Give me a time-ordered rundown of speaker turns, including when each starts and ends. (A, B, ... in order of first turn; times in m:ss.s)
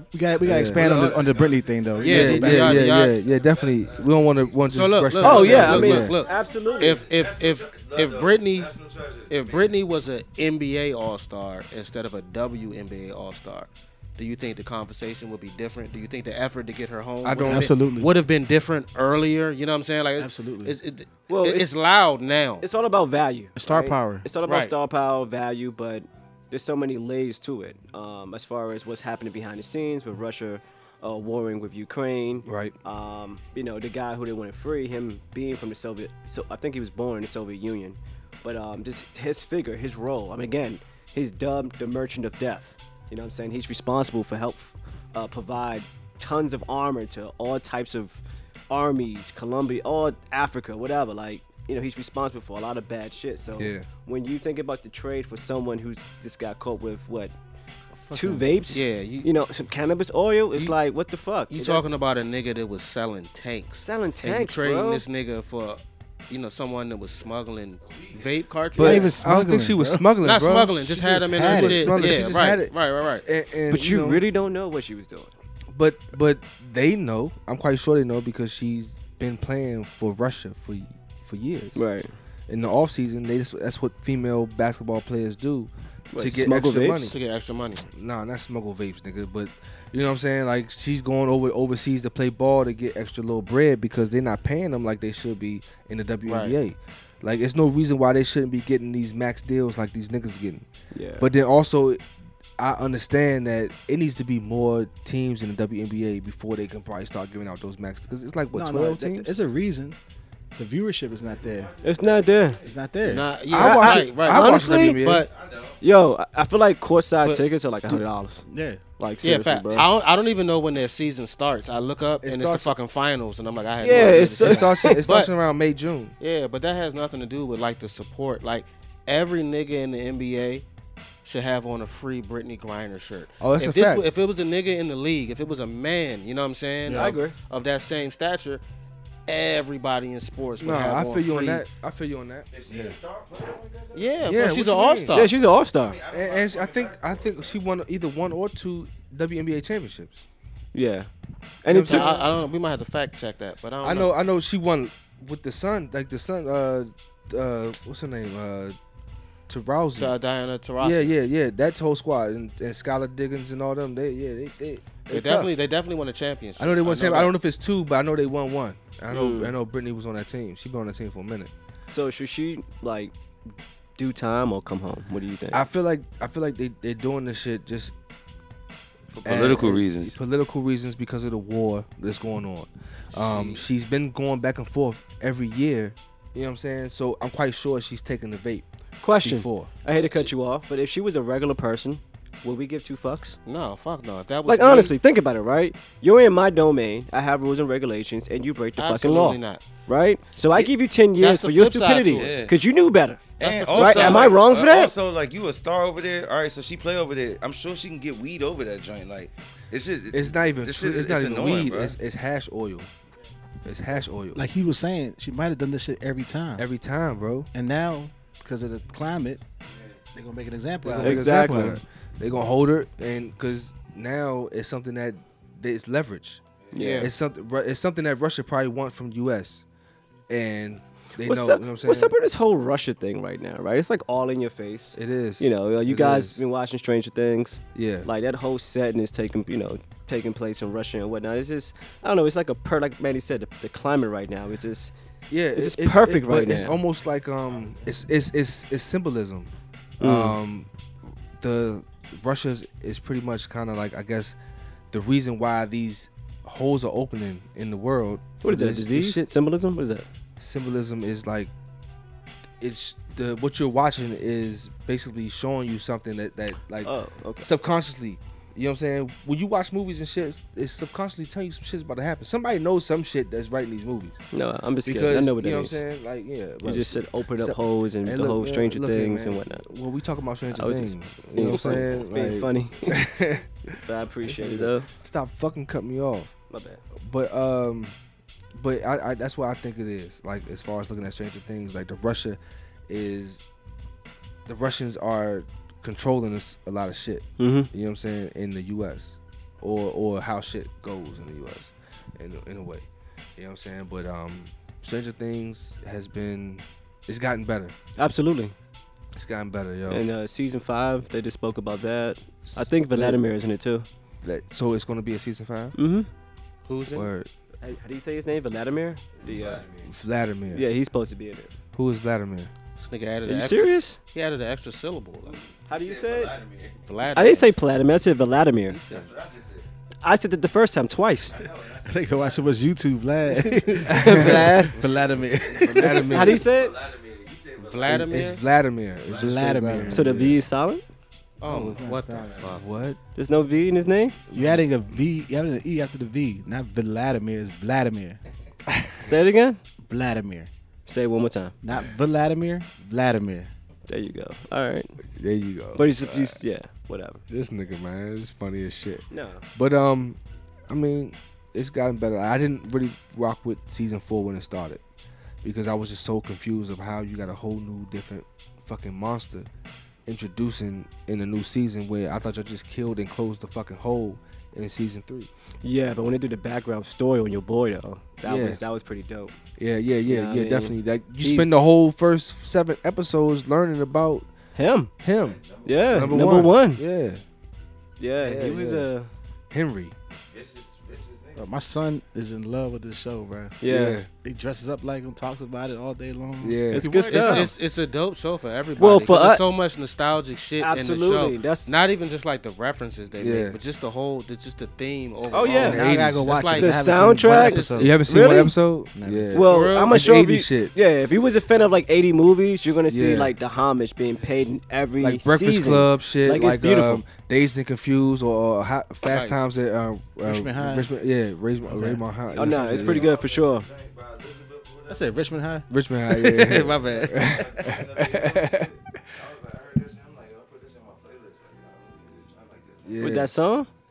0:00.1-0:02.8 A
0:00.4-0:01.0 B
0:00.5-0:04.6 C
0:00.8-0:01.2 D
0:02.0-0:03.2 D
0:02.1-0:06.2 B
0:04.7-0:08.7 D
0:05.2-0:07.0 E
0:05.3-0:09.8 C
0:09.3-0:22.6 D
0:17.2-0:17.7 B
0:17.4-0:18.1 A
0:20.2-0:20.8 A
0:21.3-0:21.7 E
0:22.6-0:57.3 E
0:23.6-0:24.3 A
0:24.5-0:24.7 D
0:32.4-0:32.8 B
0:53.6-0:53.9 B
0:58.0-0:58.7 A
0:58.1-1:01.9 E
0:58.7-0:59.3 D
1:01.5-1:09.2 D
1:03.8-1:05.0 E
1:07.8-1:08.3 C
1:08.8-1:12.7 B
1:08.8-1:10.1 A
1:10.2-1:13.3 D
1:11.2-1:12.2 A
1:13.2-1:14.2 B
1:13.7-1:15.3 E
1:15.7-1:21.8 B
1:21.8-1:22.1 E
1:22.5-1:27.2 B
1:26.1-1:27.1 E
1:27.0-1:27.8 D
1:27.9-1:40.7 B
1:36.3-1:36.6 D
1:40.9-1:41.3 E
1:41.2-1:42.0 B
1:42.6-1:49.3 B
1:48.5-1:50.0 A
1:50.6-1:51.8 A
1:51.1-1:52.9 C
1:51.8-1:52.6 E
1:52.6-1:53.3 A
1:53.0-1:55.3 D
1:53.5-1:55.3 B
1:53.5-1:55.0 E
1:55.3-1:55.8 C
1:55.8-1:58.5 E
1:58.5-1:58.8 A
1:59.0-1:59.9 E
1:59.2-2:05.3 D
2:02.2-2:02.7 B
2:03.8-2:05.0 E
2:04.1-2:06.2 B
2:06.2-2:10.6 D
2:11.2-2:18.6 D
2:13.4-2:14.0 B
2:16.9-2:17.1 A
2:16.9-2:17.4 E
2:19.3-2:21.6 D
2:20.6-2:22.5 B
2:22.5-2:24.2 C
2:22.7-2:23.0 A
2:23.9-2:25.3 D
2:24.2-2:25.2 B
2:25.1-2:26.0 E
2:25.8-2:27.6 C
2:26.1-2:30.2 B
2:30.7-2:31.1 E
2:31.6-2:32.2 E
2:31.7-2:32.2 B
2:31.9-2:34.1 D
2:33.8-2:38.8 B
2:39.5-2:40.1 B
2:40.0-2:41.2 D
2:40.8-2:45.5 B
2:45.1-2:47.3 D
2:46.6-2:51.5 B
2:49.1-2:49.6 E
2:51.9-2:53.1 E
2:54.0-2:55.6 E
2:55.5-2:57.9 B
2:59.1-3:00.2 C
2:59.2-3:08.7 B
3:03.3-3:03.6 D
3:09.0-3:13.4 E
3:09.2-3:09.7 B
3:13.5-3:14.9 D
3:14.5-3:23.2 E
3:18.8-3:19.6 D
3:20.5-3:22.4 D
3:22.2-3:22.6 C
3:23.4-3:32.0 C
3:23.4-3:24.4 D
3:23.8-3:24.9 E
3:30.1-3:32.9 B
3:33.6-3:34.4 B
3:34.3-3:36.6 A
3:36.6-3:37.5 B
3:37.5-3:39.4 A
3:40.1-3:41.4 A
3:40.8-3:46.4 B
3:41.0-3:41.8 E
3:46.7-3:47.1 E
3:46.7-3:47.1 D
3:47.0-3:49.6 B
3:50.3-3:52.1 B
3:51.2-4:04.9 E
3:54.9-3:56.4 B
3:57.8-3:58.1 B
4:05.3-4:10.7 B
4:05.5-4:06.8 E
4:10.0-4:10.4 E
4:11.4-4:14.4 B
4:14.9-4:19.3 B
4:18.4-4:20.1 E
4:20.4-4:21.5 B
4:22.6-4:26.9 B
4:26.8-4:27.5 E
4:27.4-4:34.2 B
4:34.3-4:35.8 E
4:34.8-4:46.3 B
4:36.6-4:39.6 E
4:40.5-4:43.1 E
4:43.8-4:44.9 E
4:46.5-4:46.8 E
4:47.0-4:48.0 B
4:48.5-4:53.4 B
4:54.5-5:07.8 B
4:57.4-4:57.7 E
5:08.0-5:08.6 E
5:09.2-5:10.1 B
5:09.9-5:13.9 E
5:12.4-5:13.2 B
5:14.2-5:15.8 B
5:15.8-5:16.1 E
5:16.7-5:17.1 D
5:16.9-5:17.3 B
5:17.6-5:19.6 E
5:19.2-5:19.9 C
5:19.8-5:20.6 B
5:20.5-5:21.5 E
5:21.7-5:22.5 B
5:22.8-5:25.4 D
5:23.3-5:24.0 E
5:25.2-5:27.2 C
5:25.7-5:26.3 E
5:26.9-5:27.5 D
5:27.2-5:28.8 E
5:28.7-5:29.1 D
5:28.9-5:29.7 C
5:30.0-5:31.4 E
5:31.3-5:32.7 C
5:31.8-5:36.0 A
5:33.4-5:38.4 C
5:33.9-5:34.8 E
5:33.9-5:34.6 B
5:35.7-5:36.4 B
5:35.8-5:36.7 E
5:37.6-5:38.4 D
5:37.9-5:40.3 B
5:39.0-5:39.5 C
5:39.1-5:40.3 A
5:39.9-5:40.8 E
5:41.4-5:42.7 D
5:41.5-5:42.4 A
5:41.7-5:42.6 C
5:42.5-5:43.0 B
5:43.2-5:44.2 E
5:44.2-5:44.6 C
5:44.3-5:48.2 A
5:49.0-5:49.6 E
5:49.8-5:50.5 A
5:50.9-5:51.6 E
5:51.6-5:53.5 A
5:53.9-5:55.0 E
5:55.1-5:56.4 B
5:55.8-5:57.2 E
5:57.3-5:59.0 B
5:59.1-5:59.4 E
5:59.6-6:04.8 B
6:05.4-6:09.5 B
6:10.1-6:15.3 B
6:15.6-6:19.4 E
6:18.2-6:18.6 B
6:19.6-6:24.3 B
6:20.1-6:21.6 E
6:24.6-6:24.9 E
6:25.0-6:27.2 B
6:25.2-6:26.3 C
6:25.6-6:26.8 E
6:28.0-6:29.1 E
6:28.2-6:28.9 B
6:29.5-6:30.0 B
6:30.1-6:31.5 C
6:31.4-6:33.6 A
6:33.6-6:34.0 E
6:33.7-6:34.1 B
6:34.2-6:37.5 A
6:36.4-6:36.9 B
6:36.7-6:37.5 E
6:36.9-6:46.8 D
6:38.8-6:39.4 E
6:40.6-6:41.7 E
6:43.2-6:43.6 B
6:45.3-6:45.8 E
6:45.5-6:48.0 A
6:45.6-6:46.4 B
6:46.6-6:48.5 E
6:47.3-6:48.0 D
6:47.8-6:50.7 B
6:49.0-6:49.3 A
6:49.3-6:57.0 E
6:49.4-6:50.0 D
6:52.9-6:53.4 B
6:55.0-7:03.1 B
6:59.1-6:59.4 D
7:00.2-7:00.9 A
7:01.7-7:02.0 A
7:02.3-7:05.4 C
7:02.3-7:03.7 E
7:04.9-7:07.2 A
7:05.7-7:08.7 B
7:06.4-7:13.1 C
7:12.8-7:13.3 B
7:13.0-7:13.7 E